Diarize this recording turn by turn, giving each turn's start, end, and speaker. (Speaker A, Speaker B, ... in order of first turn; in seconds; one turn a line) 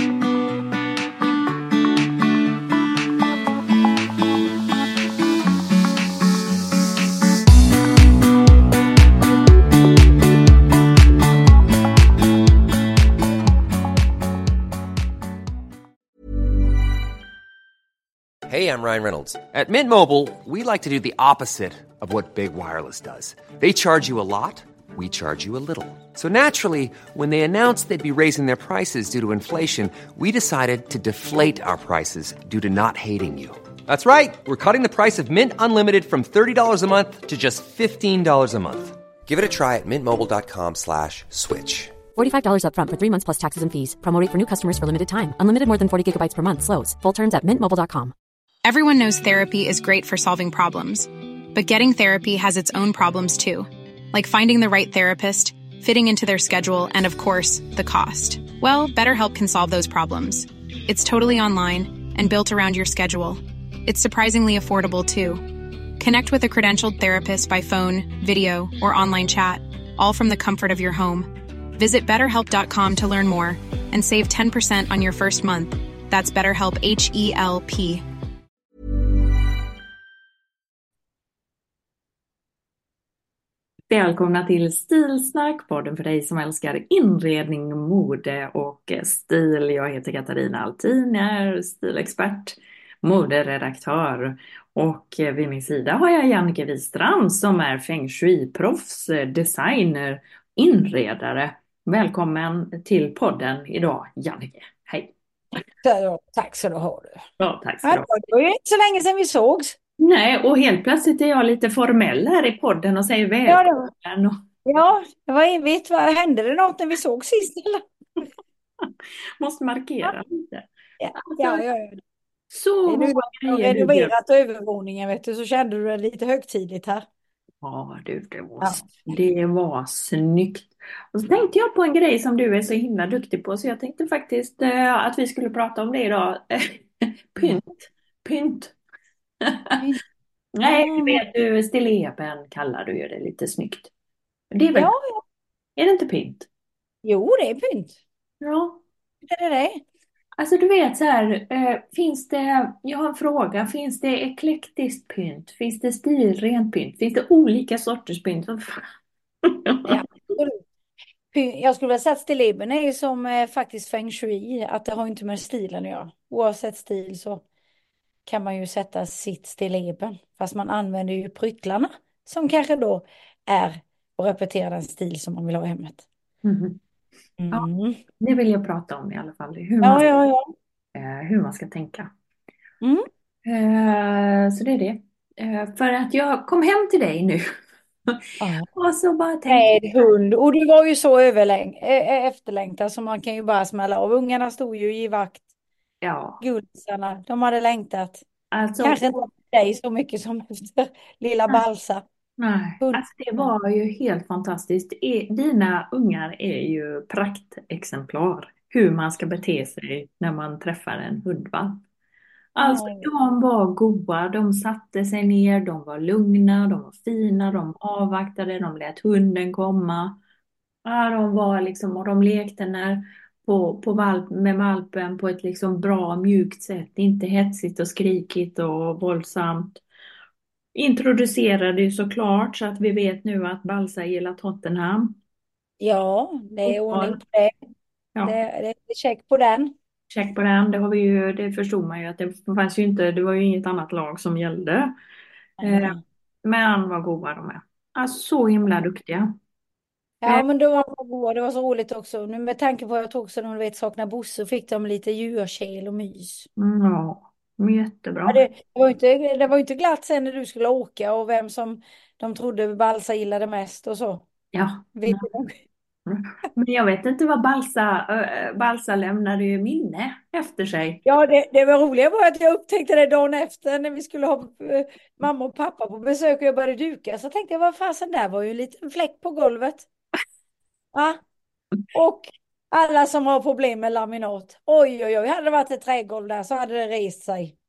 Speaker A: 18.5-42.0
Speaker B: 42.1-48.1
Speaker C: 48.6-65.4
Speaker C: 66.0-78.0
Speaker D: 83.9-105.1
Speaker E: 105.8-107.2
Speaker D: 107.4-108.1
Speaker E: 107.8-109.8
Speaker D: 110.0-114.4
Speaker E: 113.5-113.9
Speaker E: 114.6-117.8
Speaker D: 118.8-121.6
Speaker E: 121.0-122.0
Speaker D: 122.5-124.1
Speaker E: 122.9-127.0
Speaker D: 127.6-138.8
Speaker E: 128.6-129.1
Speaker D: 139.4-139.8
Speaker E: 139.8-140.0
Speaker D: 140.6-143.9
Speaker E: 140.6-141.2
Speaker D: 144.5-144.9
Speaker E: 144.7-145.2
Speaker D: 145.8-146.5
Speaker E: 147.0-148.0
Speaker D: 148.4-148.8
Speaker E: 149.2-149.8
Speaker D: 150.4-158.9
Speaker D: 159.4-159.9
Speaker E: 159.8-160.6
Speaker E: 161.3-167.4
Speaker E: 168.3-176.1
Speaker D: 176.4-176.8
Speaker E: 177.4-178.0
Speaker D: 178.2-180.1
Speaker E: 179.8-180.5
Speaker D: 180.9-182.1
Speaker E: 182.8-183.1
Speaker D: 183.4-187.5
Speaker D: 188.1-189.7
Speaker E: 188.4-188.7
Speaker E: 189.5-195.4
Speaker D: 196.0-196.4
Speaker E: 196.4-198.2
Speaker D: 198.5-199.3
Speaker E: 198.8-202.1
Speaker D: 202.4-211.8
Speaker E: 202.8-203.5
Speaker D: 212.6-220.2
Speaker E: 212.6-213.1
Speaker D: 220.8-229.8
Speaker D: 230.7-235.2
Speaker E: 235.8-237.6
Speaker D: 236.7-237.2
Speaker E: 238.2-239.7
Speaker D: 240.1-244.9
Speaker E: 245.6-246.0
Speaker D: 245.6-249.4
Speaker E: 250.2-256.5
Speaker D: 256.6-258.4
Speaker E: 258.2-264.2
Speaker D: 264.5-265.2
Speaker E: 264.9-265.6
Speaker D: 266.1-271.0
Speaker E: 271.0-279.9
Speaker E: 280.9-281.2
Speaker E: 281.9-287.6